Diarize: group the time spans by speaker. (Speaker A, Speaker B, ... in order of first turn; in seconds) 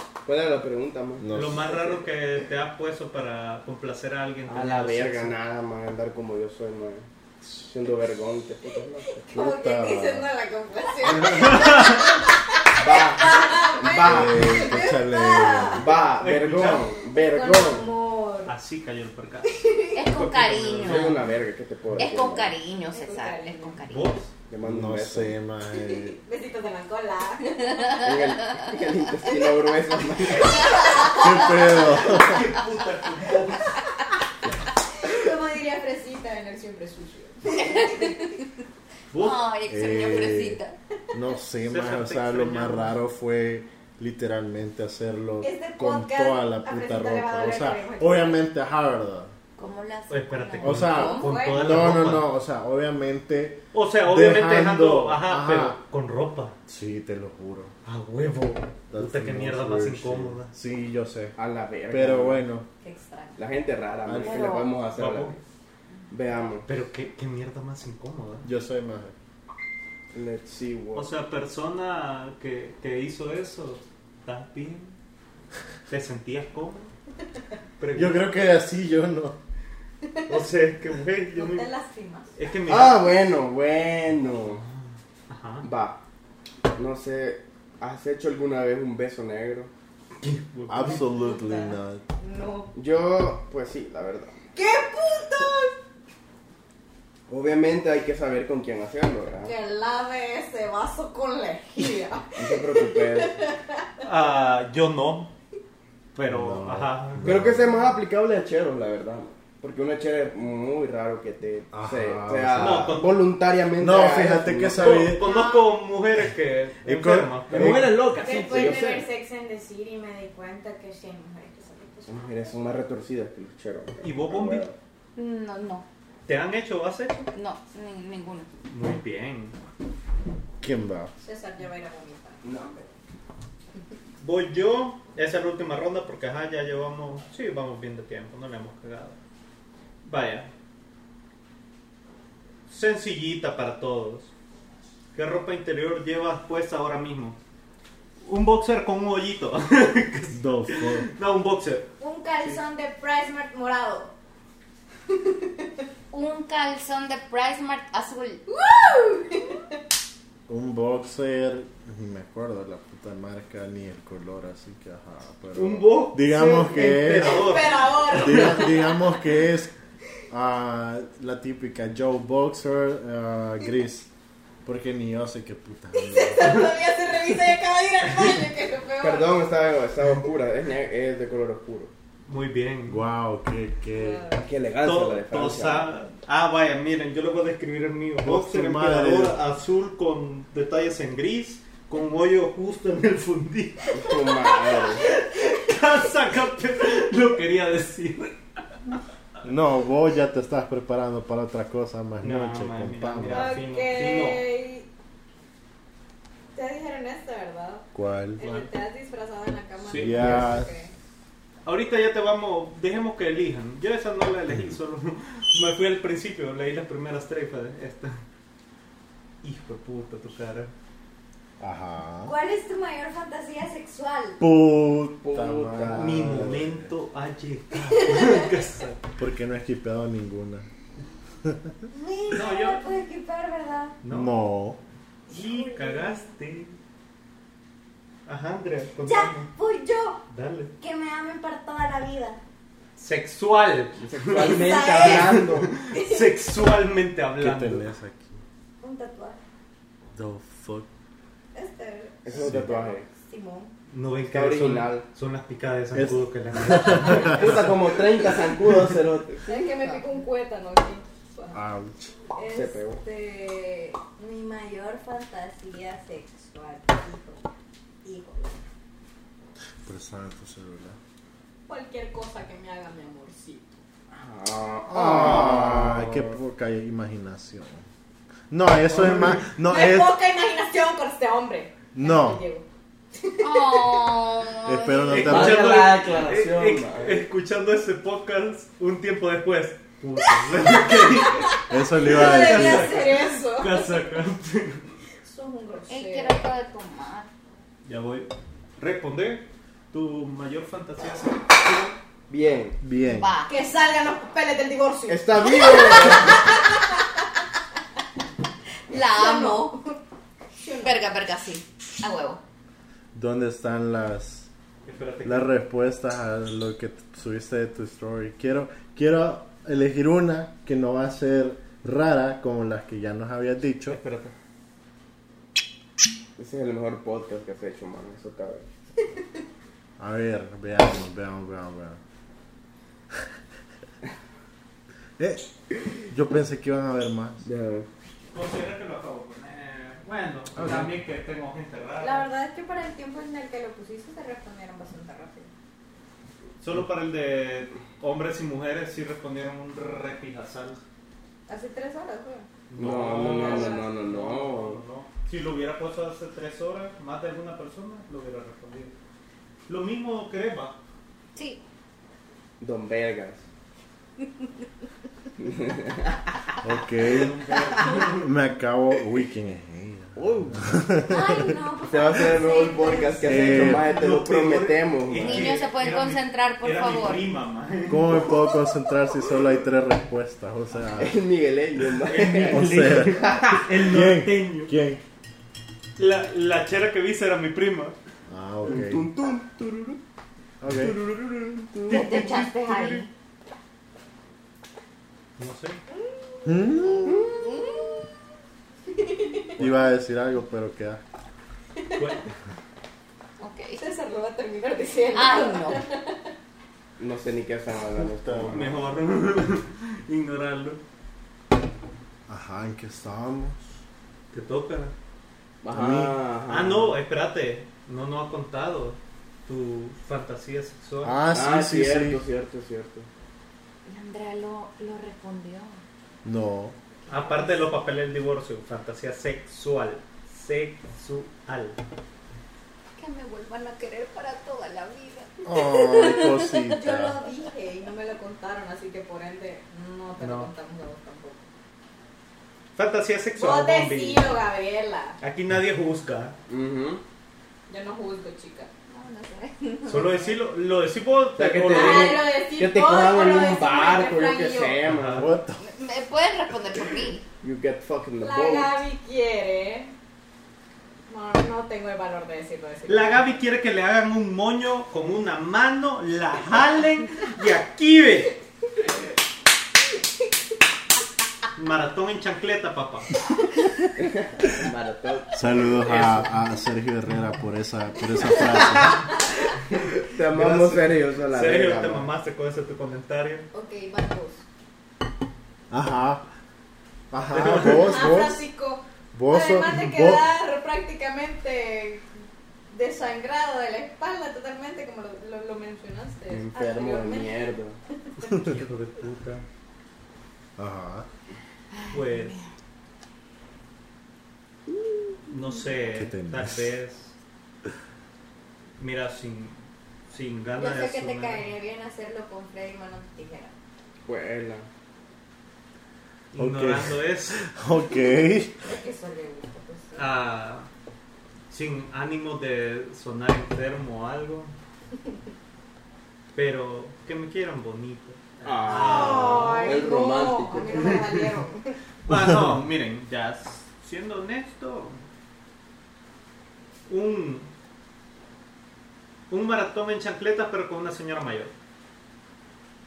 Speaker A: 0.2-1.3, 4.5-9.3, 12.8-14.7, 15.8-17.9, 20.8-22.6, 24.5-25.4, 28.0-31.2, 61.4-62.4, 63.4-65.4, 66.1-66.7, 70.1-71.1, 82.7-84.6, 85.6-86.0, 86.8-89.7, 92.8-94.4, 97.3-99.5, 102.4-103.4, 107.2-115.1, 117.5-119.1, 122.1-124.8, 132.4-132.8, 179.0-181.9, 184.4-185.9, 193.9-195.1, 225.2-226.3, 244.0-245.7, 252.2-253.1, 254.3-255.0, 256.9-259.6, 262.5-263.0, 274.1-276.4, 285.2-287.2, 302.3-302.8, 305.1-306.5, 326.4-328.7, 337.4-337.9, 352.8-354.8, 362.6-363.4, 365.4-366.1, 370.2-370.8, 371.9-375.6, 381.0-383.7, 388.6-390.0, 390.7-392.2, 407.0-408.8, 415.6-417.0, 421.3-423.1, 446.5-447.0, 451.4-455.3, 457.4-458.8, 474.0-475.4, 479.7-482.1, 496.3-497.8, 514.1-514.7, 528.4-531.0
Speaker B: 1.2-1.7, 9.3-10.3, 14.0-15.9, 24.6-26.2, 31.1-32.5, 39.7-40.6, 41.1-49.3, 50.6-55.8, 56.7-57.7, 58.9-61.4, 61.9-62.7, 64.0-64.5, 68.4-69.2, 77.9-79.4, 90.7-92.0, 106.3-108.0, 111.7-113.0, 113.8-115.2, 116.8-118.0, 130.6-131.1, 150.3-151.1, 160.5-169.7, 170.3-174.1, 174.7-176.4, 182.9-184.3, 188.2-189.3, 199.4-203.6, 207.9-208.4, 209.9-210.7, 214.5-214.8, 221.6-222.3, 224.4-226.9, 229.2-230.7, 231.4-231.7, 234.1-234.8, 247.4-248.4, 250.2-250.9, 252.3-252.9, 255.9-257.7, 261.5-262.1, 269.8-271.0, 274.9-277.8, 278.5-280.1, 281.9-282.4, 284.6-285.8, 291.7-293.0, 302.8-303.3, 313.1-314.5, 315.2-324.0, 330.0-332.0, 335.2-337.5, 340.6-340.9, 366.6-371.5, 373.2-374.0, 377.9-381.2, 382.4-385.0, 388.3-389.1, 390.6-391.0, 396.4-397.2, 399.6-401.0, 407.9-408.7, 412.3-413.8, 415.7-416.2, 421.0-422.2, 426.2-426.8, 435.4-437.2, 455.2-455.7, 475.3-479.1, 485.7-486.3, 487.1-488.4, 489.1-490.2, 500.6-501.1, 505.9-506.7, 516.4-518.5
Speaker C: 1.3-5.3, 11.1-12.1, 16.2-16.9, 18.5-19.5, 20.1-21.3, 23.9-24.3, 31.9-33.8, 39.1-39.5, 41.7-42.9, 50.1-52.3, 53.7-56.6, 57.9-60.5, 65.0-65.3, 66.7-68.5, 71.0-75.0, 75.9-76.9, 77.8-78.2, 80.3-81.7, 82.4-83.1, 84.5-84.8, 85.3-85.7, 90.2-91.0, 104.0-105.3, 106.2-107.4, 112.6-113.2, 114.8-118.0, 124.0-124.7, 126.3-127.3, 128.7-129.6, 134.2-139.2, 140.1-140.5, 142.7-144.3, 145.2-147.4, 148.2-151.9, 165.5-168.5, 182.3-183.0, 184.8-194.2, 195.0-198.4, 202.2-204.4, 208.4-208.7, 209.8-210.5, 211.7-218.2, 219.4-220.7, 225.9-229.1, 232.3-232.8, 234.0-234.3, 235.3-236.8, 238.3-239.5, 240.3-240.7, 243.0-247.9, 253.9-257.8, 278.9-279.4, 285.1-291.5, 292.1-294.8, 297.9-302.0, 314.9-315.5, 323.9-324.3, 338.3-342.3, 346.6-350.8, 352.7-358.9, 359.7-360.8, 367.0-368.3, 373.7-378.3, 382.0-384.7, 386.0-388.0, 391.9-393.1, 395.4-395.8, 402.0-402.2, 408.5-410.8, 414.3-414.9, 416.5-421.2, 427.1-431.8, 440.2-440.5, 442.8-444.3, 445.2-446.4, 449.9-452.3, 454.8-455.3, 462.9-468.4, 471.6-473.1, 475.8-476.3, 480.2-483.5, 487.3-488.0, 498.2-499.4, 501.9-502.4, 505.3-507.1, 508.8-509.6, 510.1-511.4, 516.3-517.5, 520.0-520.7, 521.5-524.5, 526.3-529.8, 531.0-531.2, 532.1-535.0, 536.9-537.5, 539.3-541.5
Speaker D: 9.1-15.9, 17.1-18.5, 19.4-20.1, 22.9-23.8, 25.7-28.0, 35.0-38.4, 45.4-48.4, 50.9-51.6, 62.8-63.4, 80.0-80.4, 81.3-82.4, 91.1-92.7, 94.5-95.8, 99.4-103.9, 115.2-115.7, 118.1-122.6, 131.2-132.9, 152.0-154.1, 155.3-155.7, 158.5-159.6, 166.7-169.1, 176.0-179.4, 183.9-184.4, 194.6-195.2, 203.3-204.9, 206.6-207.9, 208.4-210.9, 222.2-224.4, 227.8-228.5, 231.9-234.0, 235.3-236.3, 239.0-240.2, 240.8-242.4, 244.3-246.4, 248.8-249.4, 251.5-253.7, 259.5-261.6, 262.3-267.4, 268.0-268.7, 271.7-273.8, 279.6-284.2, 290.6-293.9, 295.2-296.4, 303.5-307.0, 309.0-310.0, 310.6-311.0, 342.0-345.5, 351.5-352.5, 353.1-353.9, 371.1-373.8, 396.1-398.0, 398.9-399.6, 401.8-402.2, 403.8-406.2, 436.0-441.5, 443.4-445.2, 447.7-448.7, 449.9-450.2, 451.7-454.9, 458.2-459.9, 461.1-463.3, 483.5-484.4, 487.7-492.1, 492.7-497.5, 510.6-513.5, 518.6-520.1, 528.7-531.8
Speaker E: 19.9-21.2, 22.0-24.2, 27.7-28.7, 30.8-31.1, 37.5-38.4, 39.1-40.8, 49.6-50.9, 64.2-64.8, 125.2-125.9, 127.3-128.5, 156.1-158.4, 283.4-285.3, 295.9-297.3, 303.0-303.5, 308.9-309.8, 310.8-312.4, 361.4-361.6, 375.2-377.2, 391.9-393.1, 403.4-403.8, 405.1-405.8, 423.9-425.8, 433.0-436.7, 448.9-450.0, 455.6-457.2, 501.7-502.5